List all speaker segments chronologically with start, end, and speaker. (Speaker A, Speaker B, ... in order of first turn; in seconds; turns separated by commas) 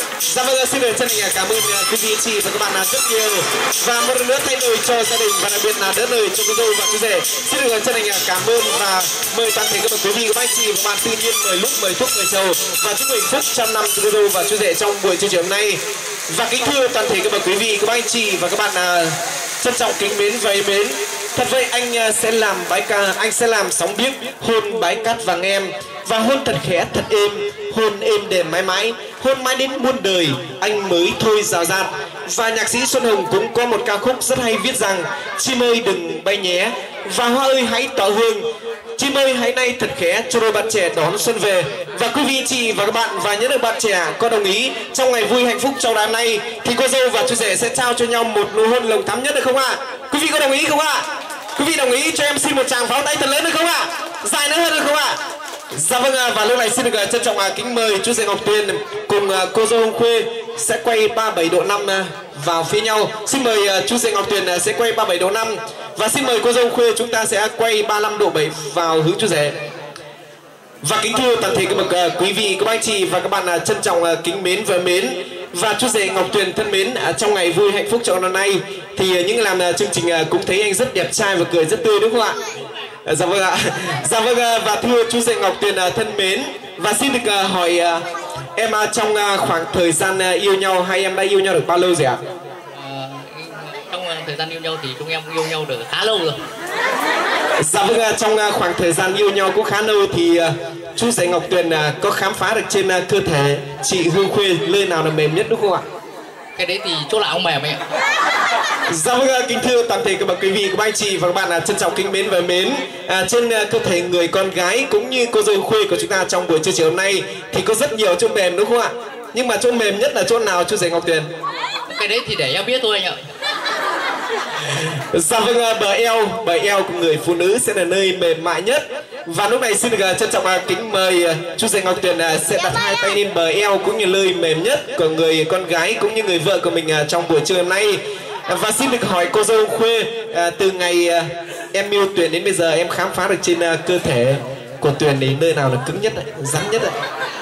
Speaker A: 0.3-38.4, Speaker A: 39.0-55.2, Speaker A: 55.7-69.5, Speaker A: 70.8-82.4, Speaker A: 83.0-88.0, Speaker A: 88.5-92.2, Speaker B: 92.7-96.4, Speaker A: 97.6-105.8, Speaker B: 106.6-107.8, Speaker A: 108.9-121.3, Speaker B: 121.9-123.2, Speaker A: 125.1-146.9